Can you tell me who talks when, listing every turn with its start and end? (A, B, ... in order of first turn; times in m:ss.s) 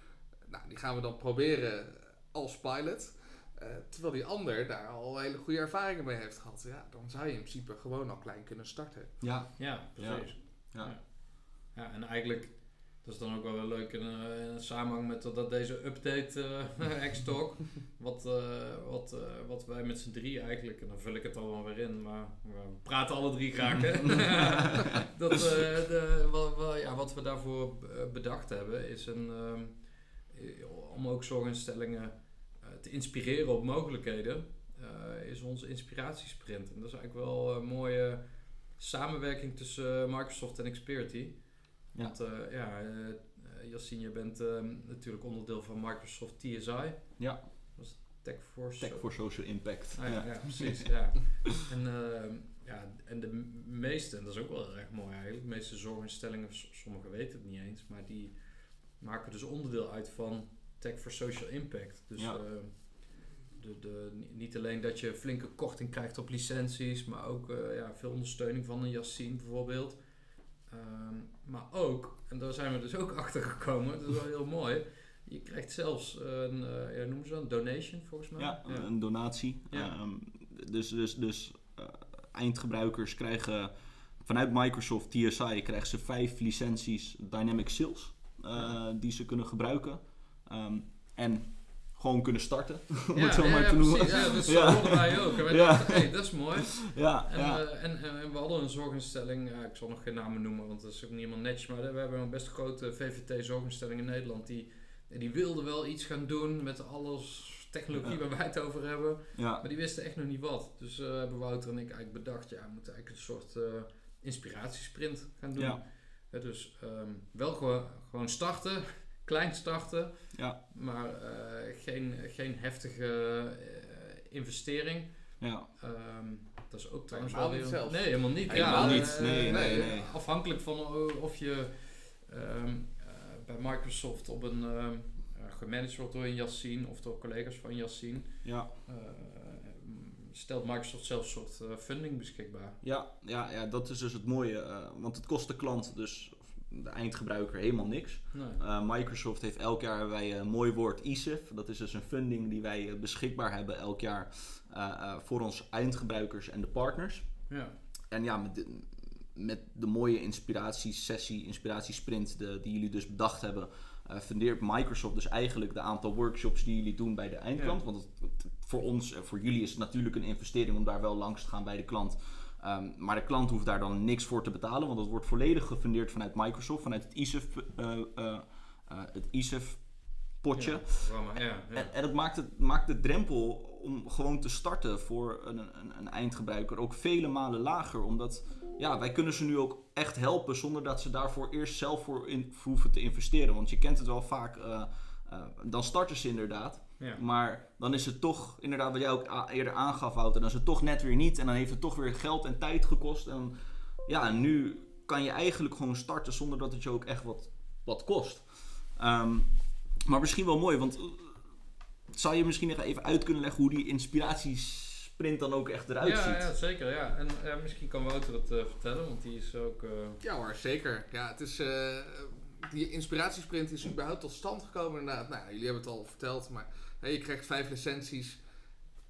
0:00.4-0:09.2 A
0:09.2-0:11.0 B
0:09.6-1:19.9 C
0:47.2-0:47.4 B
0:48.8-0:51.0 B
1:02.2-1:02.4 B
1:18.4-1:37.6 B
1:28.5-1:28.8 C
1:33.1-2:22.8 C
1:34.0-1:35.0 A
1:48.0-1:48.2 B
1:49.3-1:49.6 B
1:55.6-1:55.8 B
2:00.3-2:00.6 B
2:05.4-2:05.7 B
2:07.1-2:10.0 A
2:08.5-2:10.1 B
2:18.4-2:18.7 B
2:22.8-2:37.5 B
2:28.3-2:28.6 C
2:37.5-2:37.8 C
2:38.1-3:23.5 B
3:00.5-3:01.9 C
3:24.0-3:29.5 B
3:30.0-3:31.4 B
3:32.1-3:36.5 B
3:36.0-3:40.2 C
3:40.2-3:48.4 A